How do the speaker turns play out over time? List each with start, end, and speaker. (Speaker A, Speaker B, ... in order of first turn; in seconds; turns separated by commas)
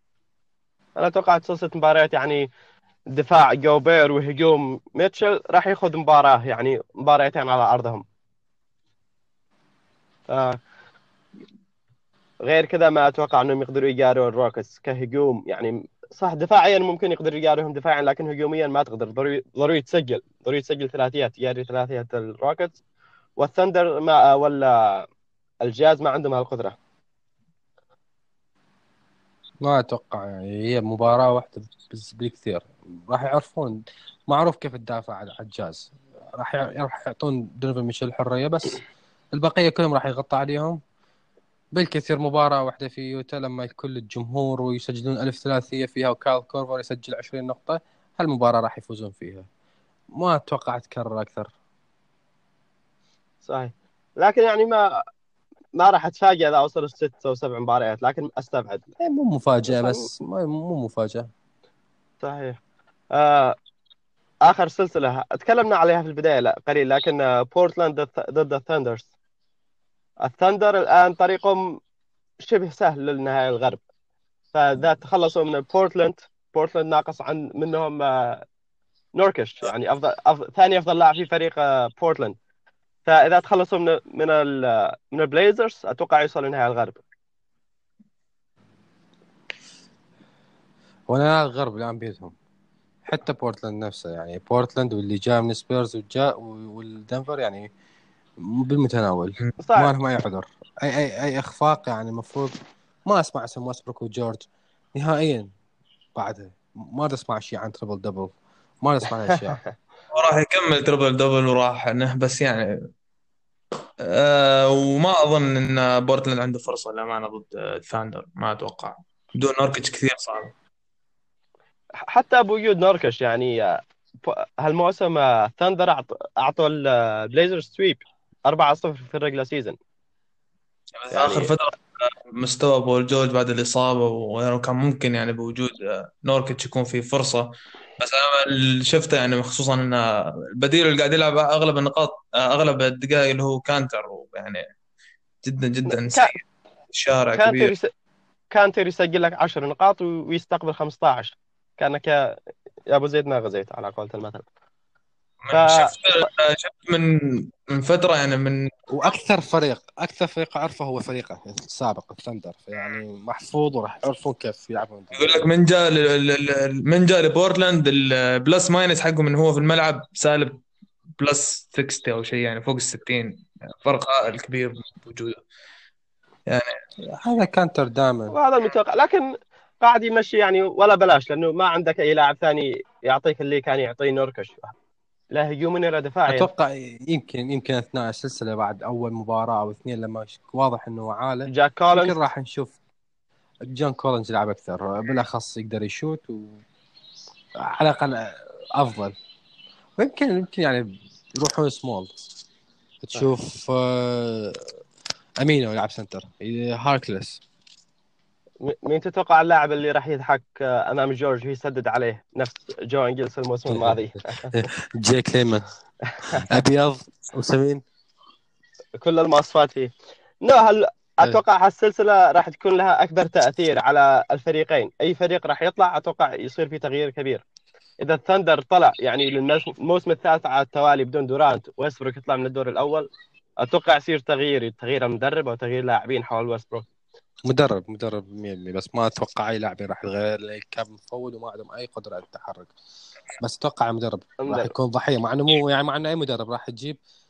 Speaker A: 1.0-2.5, Speaker A: 3.1-8.0, Speaker A: 10.3-10.6, Speaker A: 12.4-22.8, Speaker A: 23.4-25.1, Speaker A: 25.6-26.8, Speaker B: 29.6-38.8, Speaker B: 39.3-40.8, Speaker B: 41.7-49.5, Speaker B: 50.2-51.5, Speaker A: 53.4-54.9, Speaker A: 55.8-58.9, Speaker B: 59.0-61.3, Speaker A: 59.7-60.0, Speaker A: 62.2-62.6, Speaker A: 63.1-63.5, Speaker A: 64.5-69.1, Speaker A: 70.2-71.8, Speaker A: 72.4-73.8, Speaker A: 74.5-78.4, Speaker A: 79.2-82.4, Speaker A: 83.1-87.0, Speaker B: 91.1-92.3, Speaker B: 93.1-97.7, Speaker B: 98.4-105.5, Speaker A: 99.6-99.9, Speaker B: 106.2-109.6, Speaker A: 109.3-109.6, Speaker C: 110.1-112.7, Speaker C: 114.0-120.5, Speaker A: 122.1-129.8, Speaker C: 131.0-137.5, Speaker A: 131.1-131.5, Speaker C: 138.0-140.0, Speaker C: 140.6-144.6, Speaker C: 145.4-147.7, Speaker A: 145.9-146.3, Speaker A: 147.4-147.9, Speaker A: 148.5-152.2, Speaker A: 152.9-154.4, Speaker C: 155.4-158.7, Speaker A: 155.5-156.3, Speaker B: 158.9-165.5, Speaker C: 165.1-170.6, Speaker C: 171.2-175.4, Speaker C: 176.5-176.7, Speaker B: 177.2-178.4, Speaker A: 178.3-179.3, Speaker A: 179.8-184.7, Speaker A: 185.3-186.5, Speaker B: 186.3-192.8, Speaker A: 191.5-192.2, Speaker B: 193.7-196.6, Speaker B: 197.6-199.2, Speaker B: 200.0-202.1, Speaker B: 203.0-204.7, Speaker B: 205.4-207.4, Speaker A: 208.6-214.5, Speaker B: 213.7-215.7, Speaker B: 216.3-217.8, Speaker A: 219.0-219.9, Speaker A: 220.4-227.4, Speaker A: 228.0-233.1, Speaker A: 233.6-236.9, Speaker B: 237.4-242.7, Speaker B: 243.4-247.0, Speaker A: 244.4-244.7